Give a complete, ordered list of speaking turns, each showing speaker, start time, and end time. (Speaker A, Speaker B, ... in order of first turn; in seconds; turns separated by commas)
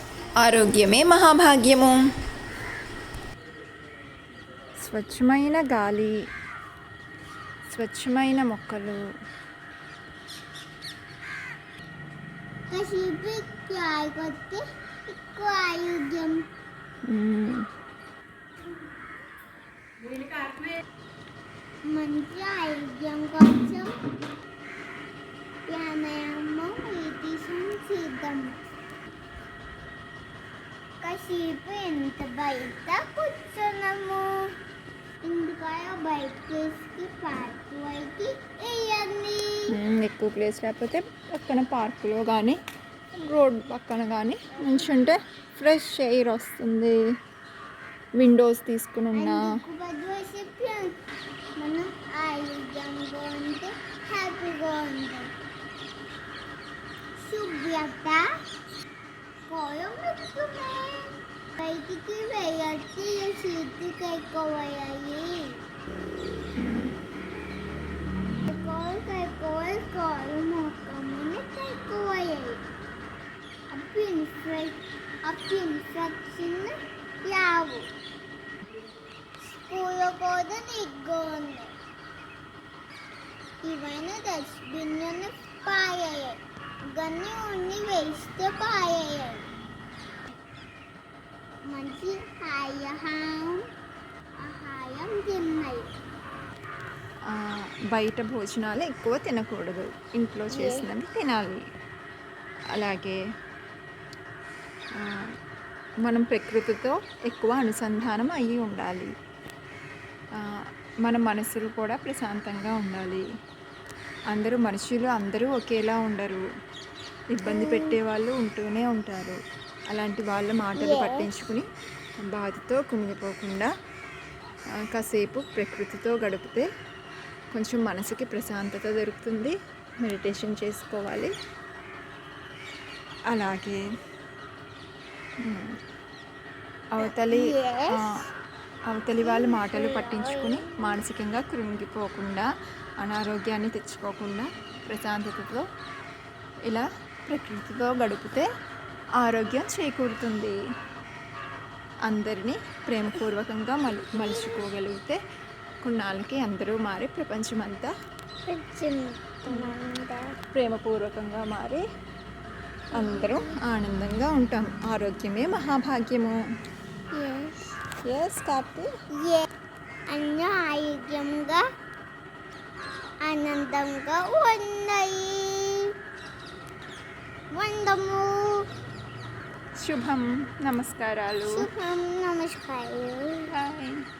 Speaker A: 0.4-2.0, Speaker A: 4.8-6.2, Speaker A: 7.7-9.0, Speaker B: 12.7-14.6, Speaker B: 15.1-16.5, Speaker A: 17.1-17.7, Speaker B: 21.9-23.9, Speaker B: 25.7-28.6, Speaker B: 31.0-34.5, Speaker B: 35.2-39.8, Speaker A: 39.7-42.6, Speaker A: 43.2-47.0, Speaker B: 44.5-45.1, Speaker A: 48.2-49.5, Speaker B: 49.1-50.9, Speaker B: 51.6-55.3, Speaker B: 57.2-58.2, Speaker B: 59.5-65.6, Speaker B: 68.5-72.6, Speaker B: 73.7-77.9, Speaker B: 79.5-81.7, Speaker B: 83.6-89.5, Speaker B: 91.7-93.6, Speaker B: 94.4-95.9, Speaker A: 97.3-101.6, Speaker B: 100.5-100.9, Speaker A: 102.7-103.2, Speaker A: 105.0-105.2, Speaker A: 106.0-109.1, Speaker A: 111.0-113.2, Speaker A: 114.3-116.5, Speaker A: 117.3-119.4, Speaker B: 117.5-118.0, Speaker A: 119.9-121.7, Speaker B: 120.8-121.3, Speaker A: 122.2-123.7, Speaker A: 124.9-126.7, Speaker A: 127.5-131.3, Speaker A: 133.3-133.8, Speaker A: 135.4-135.8, Speaker A: 136.9-137.4, Speaker B: 137.0-138.2, Speaker A: 138.9-142.5, Speaker B: 139.2-141.0, Speaker A: 143.0-145.7, Speaker A: 146.7-148.5, Speaker A: 149.2-150.6, Speaker A: 152.1-155.2, Speaker B: 153.8-154.7, Speaker A: 155.8-157.9, Speaker B: 158.5-160.3, Speaker A: 160.5-161.8, Speaker B: 162.9-163.6, Speaker A: 162.9-166.4, Speaker B: 167.1-167.8, Speaker A: 168.1-168.9, Speaker B: 169.2-169.5, Speaker B: 170.1-171.6, Speaker B: 173.2-175.9, Speaker B: 177.5-178.6, Speaker A: 179.8-181.7, Speaker B: 181.5-183.5, Speaker A: 183.5-184.0